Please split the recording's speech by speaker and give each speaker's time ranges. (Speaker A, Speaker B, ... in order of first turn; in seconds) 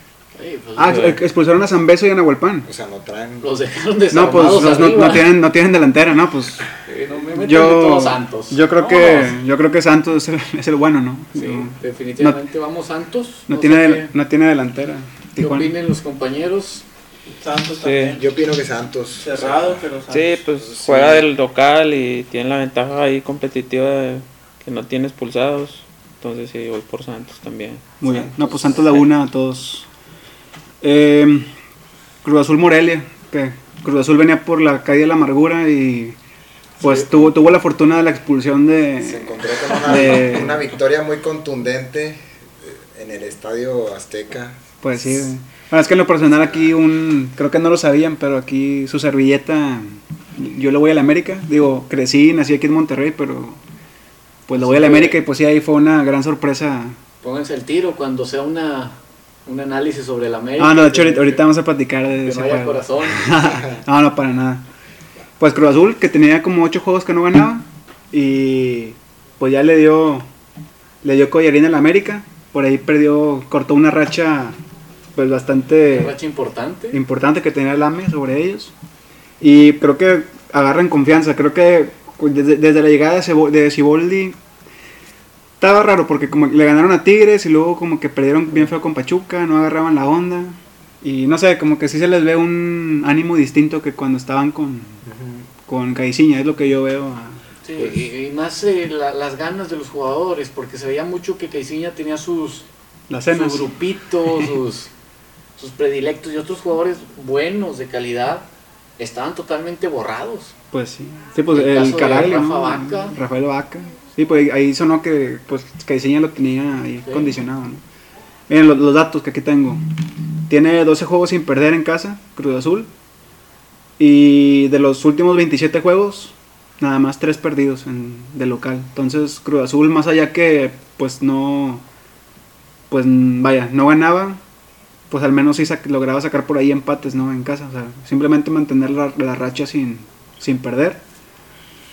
Speaker A: 0.3-1.2, 3.4-5.3, 6.8-9.3, 11.3-14.1, 15.4-16.9, 36.8-37.1, 54.5-55.2, 57.2-61.5, 62.2-63.4, 75.8-77.0, 97.6-102.7, 103.3-104.9, 105.6-108.5, 109.0-110.5, 111.5-113.2, 117.0-117.3
Speaker B: 0.8-2.7, 4.1-6.7, 7.3-12.4, 13.5-15.7, 28.0-29.9, 30.8-31.5, 32.2-36.2, 36.8-40.6, 44.8-53.6, 54.5-57.0, 60.6-64.7, 65.4-70.2, 71.0-74.6, 75.1-76.2, 76.9-78.7, 79.4-84.4, 85.6-95.0, 95.7-97.4, 103.1-103.7, 104.3-104.5, 110.7-117.8, 118.5-119.8, 120.5-122.9, 124.0-131.8, 132.9-134.4, 135.1-141.0
Speaker C: 2.6-3.5, 18.2-19.9, 20.7-21.2, 39.0-44.6, 63.5-63.8, 95.0-95.5, 97.8-98.0
Speaker D: 17.4-18.4, 19.2-20.5
Speaker E: 17.8-18.2, 20.1-27.9